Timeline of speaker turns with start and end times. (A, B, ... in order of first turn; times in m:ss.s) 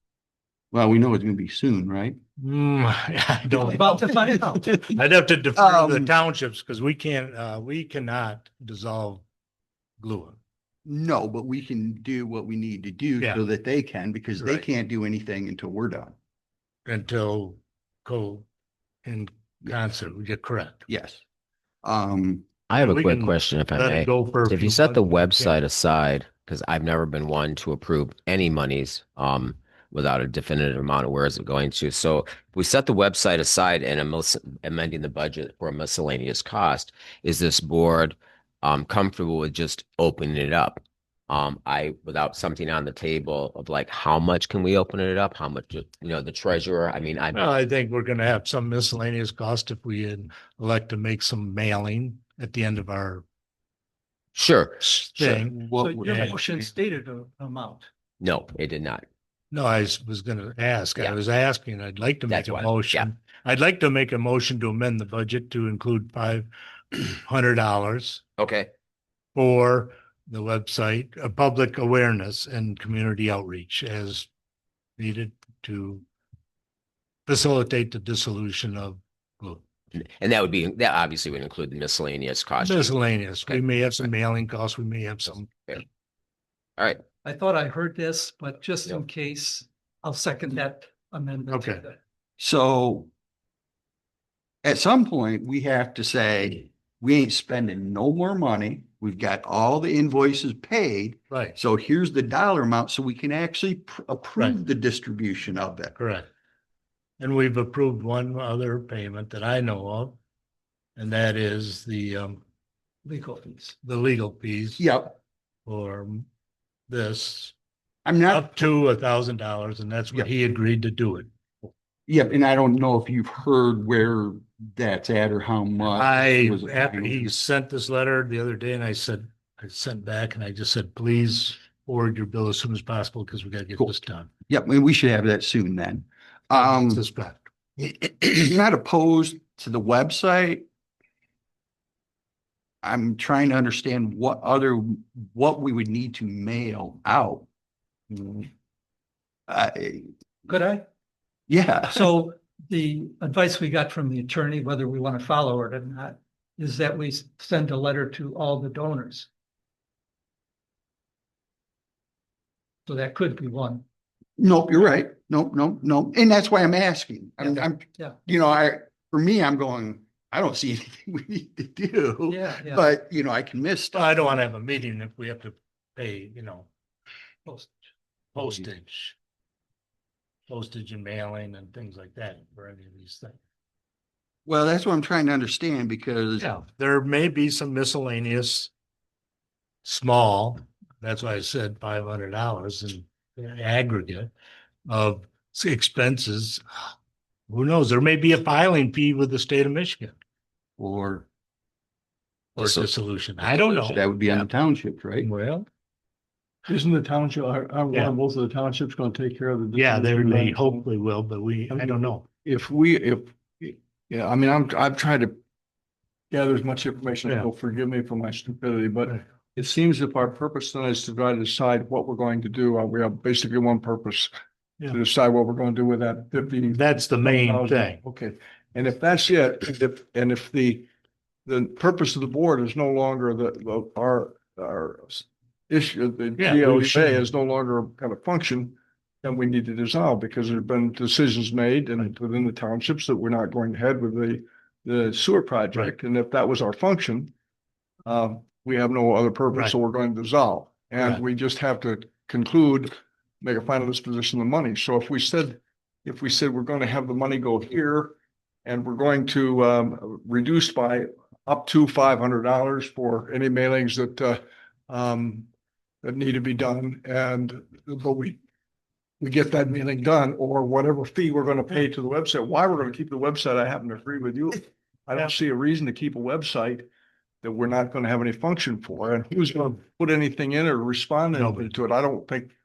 0:00.7-0:02.2 A
0:02.4-0:09.2 B
0:03.5-0:04.3 A
0:03.6-0:04.7 C
0:05.5-0:06.1 A
0:10.0-0:10.4 B
0:10.8-0:16.1 A
0:14.4-0:14.6 B
0:16.8-0:18.5 B
0:19.0-0:20.8 B
0:20.9-0:21.2 A
0:21.8-0:22.4 A
0:22.7-0:47.4 D
0:22.8-0:25.5 B
0:47.3-0:53.2 B
0:54.3-0:55.4 D
0:54.8-0:56.3 B
0:55.2-0:56.6 A
0:55.8-0:57.9 C
0:58.2-0:59.0 D
0:59.5-1:08.2 B
1:02.3-1:03.1 D
1:08.4-1:08.7 D
1:09.3-1:14.3 B
1:15.0-1:16.0 B
1:17.3-1:19.6 B
1:19.9-1:24.1 D
1:22.6-1:25.5 B
1:25.3-1:25.8 D
1:27.2-1:32.0 C
1:31.5-1:31.8 B
1:32.4-1:33.1 A
1:34.6-1:45.9 A
1:46.0-1:46.3 B
1:47.2-1:50.2 B
1:51.0-1:52.4 B
1:53.0-1:53.7 C
1:53.8-1:54.8 B
1:54.8-1:55.2 A
1:55.6-1:56.3 B
1:56.9-1:57.5 B
1:58.0-1:58.7 A
1:58.3-2:01.7 B
2:02.1-2:07.4 A
2:05.8-2:14.3 B
2:14.5-2:17.0 A
2:16.5-2:17.5 B
2:17.8-2:20.6 A
2:22.8-2:27.5 A
2:28.1-2:28.5 A
2:29.5-2:30.1 A
2:30.5-2:30.8 C
2:31.5-2:32.1 A
2:31.9-2:39.3 C
2:42.9-2:43.8 C
2:44.4-2:54.2 A
2:52.3-2:52.9 C
2:53.9-2:56.7 B
2:57.4-2:57.8 C
2:58.3-2:59.2 B
3:00.5-3:03.4 B
3:04.4-3:06.5 A
3:06.4-3:08.7 B
3:09.8-3:14.3 B
3:14.9-3:16.6 B
3:17.5-3:20.1 B
3:20.8-3:21.3 A
3:22.6-3:24.0 B
3:22.6-3:24.4 D
3:23.8-3:25.3 A
3:25.2-3:25.7 B
3:26.7-3:30.9 E
3:29.7-3:32.2 B
3:31.7-3:35.3 E
3:36.3-3:44.3 E
3:44.9-3:50.9 E
3:46.7-3:48.0 B
3:51.4-4:07.3 E
3:56.4-3:57.3 B
4:08.0-4:25.5 E
4:26.0-4:28.4 E
4:29.2-4:36.8 E
4:37.4-4:42.5 E
4:41.3-4:41.7 B